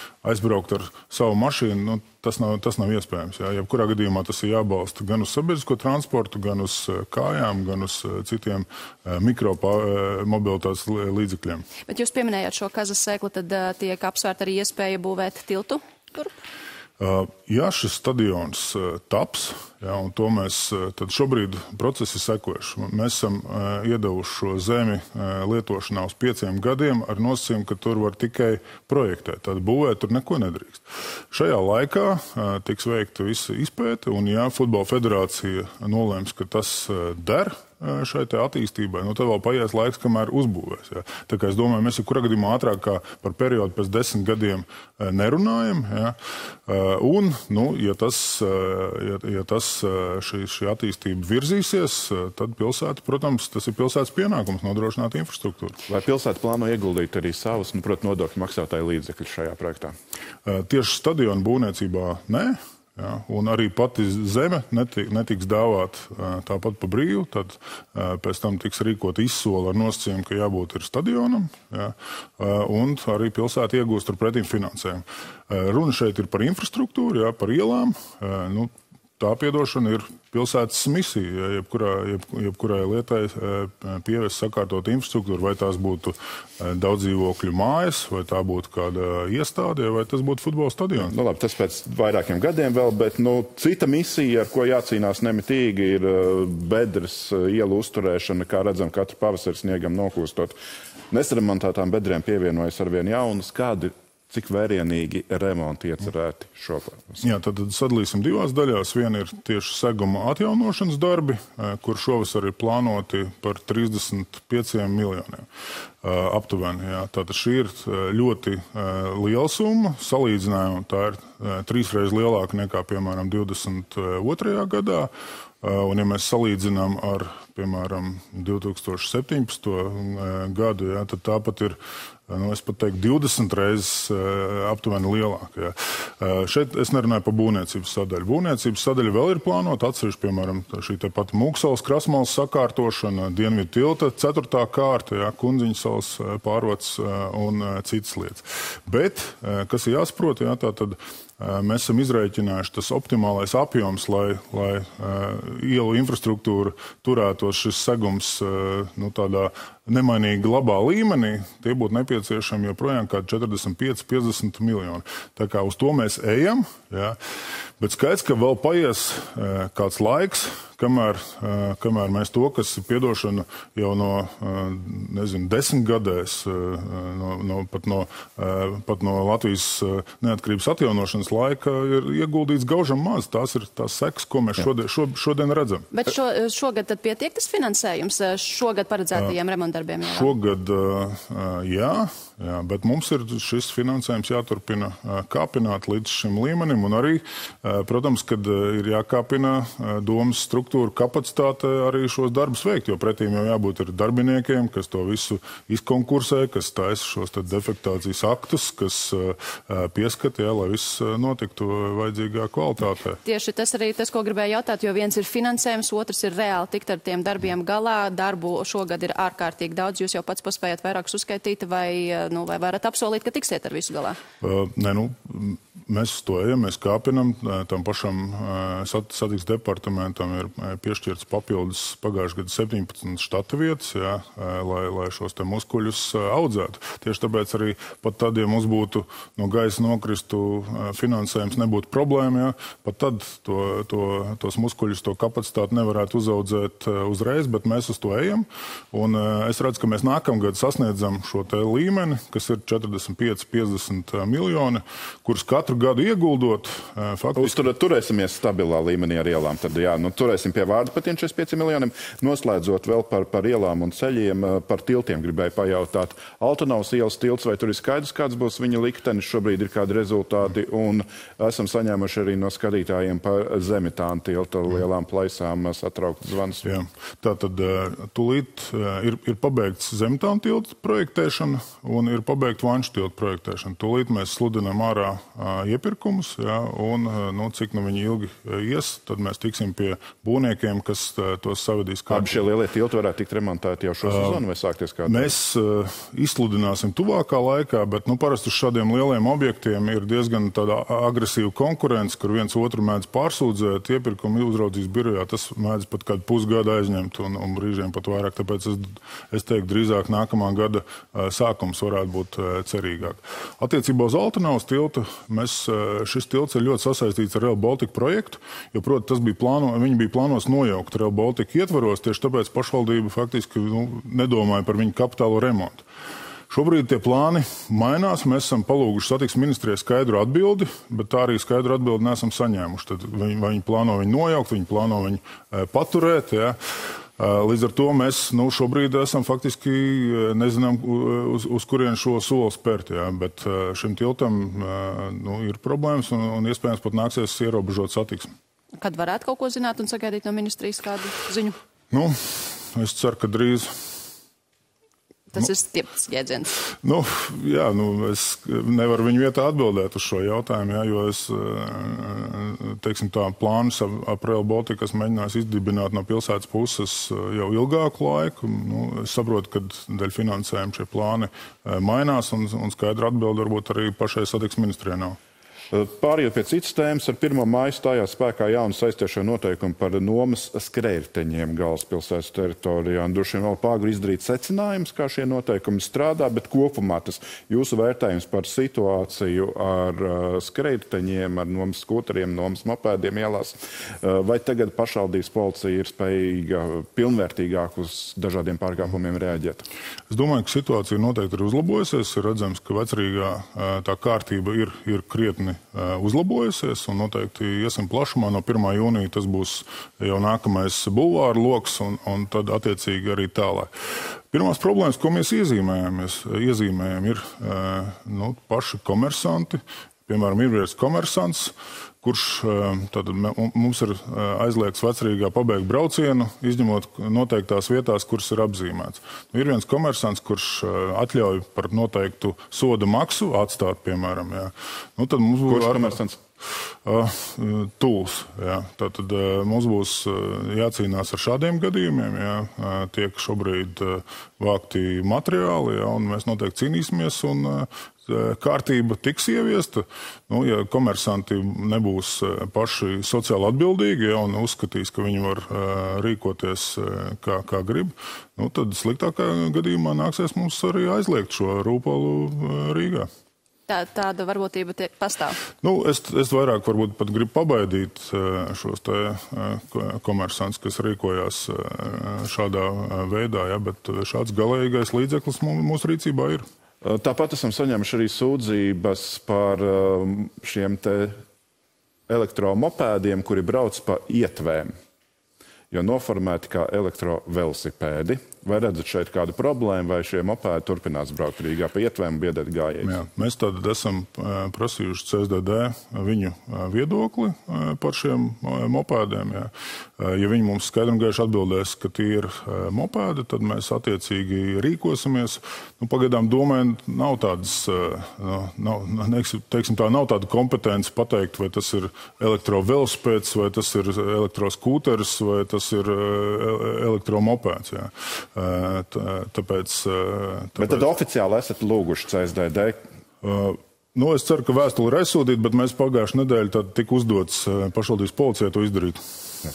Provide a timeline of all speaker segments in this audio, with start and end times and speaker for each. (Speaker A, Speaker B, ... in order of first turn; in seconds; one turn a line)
Speaker A: 0.2-11.7
Speaker B: 11.9-16.3
Speaker A: 17.0-55.8
Speaker C: 55.9-60.0
Speaker A: 60.5-91.1
Speaker C: 91.0-100.6
Speaker C: 101.1-107.2
Speaker A: 107.2-115.5
Speaker A: 116.0-125.1
Speaker A: 125.6-167.2
Speaker A: 167.8-185.9
Speaker B: 185.9-190.3
Speaker A: 190.1-213.2
Speaker B: 213.2-224.2
Speaker A: 224.4-257.6
Speaker C: 257.4-276.7
Speaker A: 276.6-292.5
Speaker C: 292.1-295.4
Speaker A: 294.0-294.4
Speaker A: 295.1-325.8
Speaker A: 326.5-336.6
Speaker A: 337.2-348.3
Speaker B: 348.8-351.6
Speaker A: 351.9-354.0
Speaker B: 355.3-356.6
Speaker A: 356.8-375.2
Speaker C: 375.7-399.7
Speaker A: 400.1-413.7
Speaker A: 414.3-436.0
Speaker C: 435.5-436.2
Speaker A: 436.9-463.1
Speaker B: 463.7-465.4
Speaker A: 465.6-476.4
Speaker C: 476.8-481.2
Speaker C: 482.1-484.8
Speaker C: 485.7-493.0
Speaker A: 492.8-520.9
Speaker C: 520.6-522.8
Speaker A: 523.2-529.0